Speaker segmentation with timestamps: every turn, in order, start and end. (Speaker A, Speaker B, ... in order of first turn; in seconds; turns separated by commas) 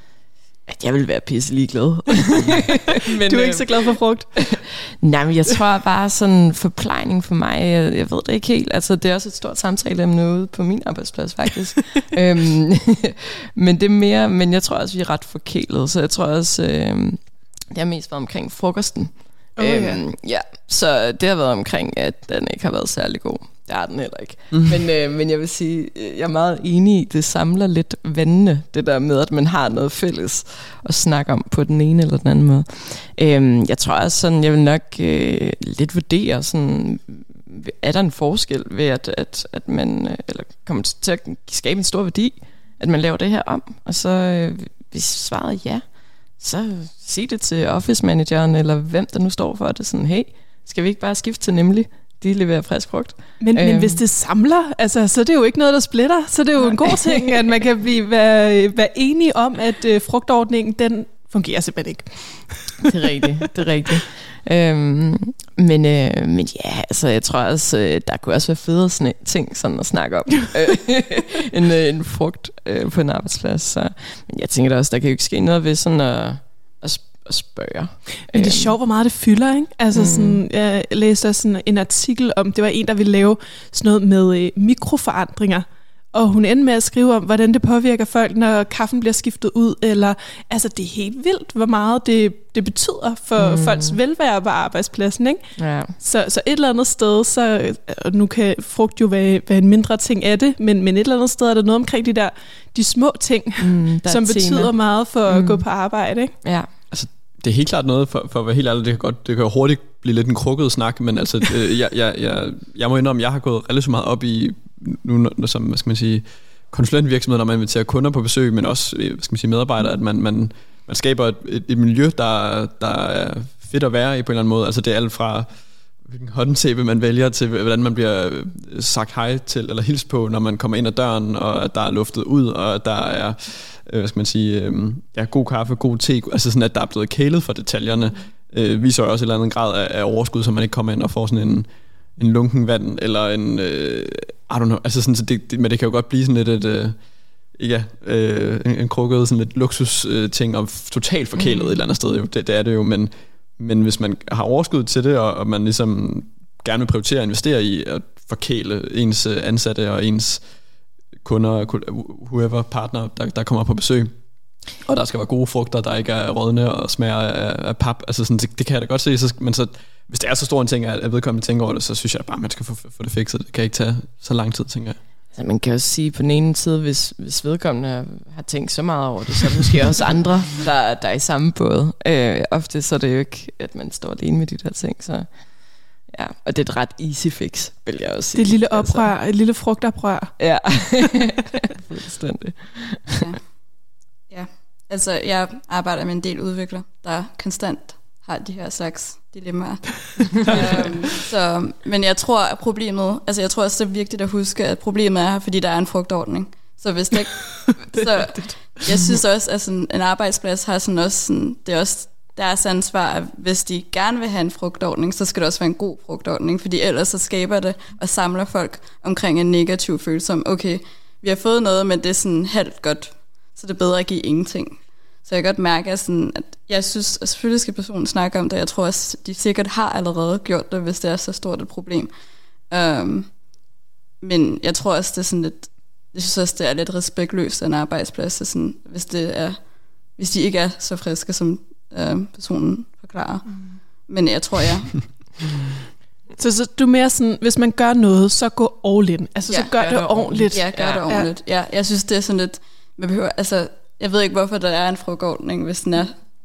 Speaker A: 0.7-45.8, Speaker B: 3.2-4.4, Speaker B: 19.6-20.0, Speaker A: 46.4-54.0, Speaker B: 53.4-62.8, Speaker A: 56.6-57.3, Speaker A: 62.8-78.8, Speaker B: 78.3-95.4, Speaker A: 79.9-80.4, Speaker A: 93.4-94.0, Speaker A: 95.6-95.9, Speaker B: 96.0-106.3, Speaker A: 103.6-104.7, Speaker A: 105.3-105.6, Speaker A: 106.4-106.7, Speaker C: 106.9-125.5, Speaker C: 126.1-147.0, Speaker C: 147.6-160.4, Speaker C: 161.2-164.1, Speaker C: 164.8-175.0, Speaker A: 175.3-185.3, Speaker A: 186.1-189.1, Speaker B: 188.3-191.2, Speaker A: 190.4-193.2, Speaker D: 193.2-193.4, Speaker D: 194.3-232.1, Speaker D: 232.7-233.3, Speaker D: 234.2-239.6, Speaker D: 240.2-245.1, Speaker B: 243.5-243.8, Speaker B: 246.4-251.2, Speaker D: 249.5-249.8, Speaker A: 249.6-251.1, Speaker D: 250.5-256.2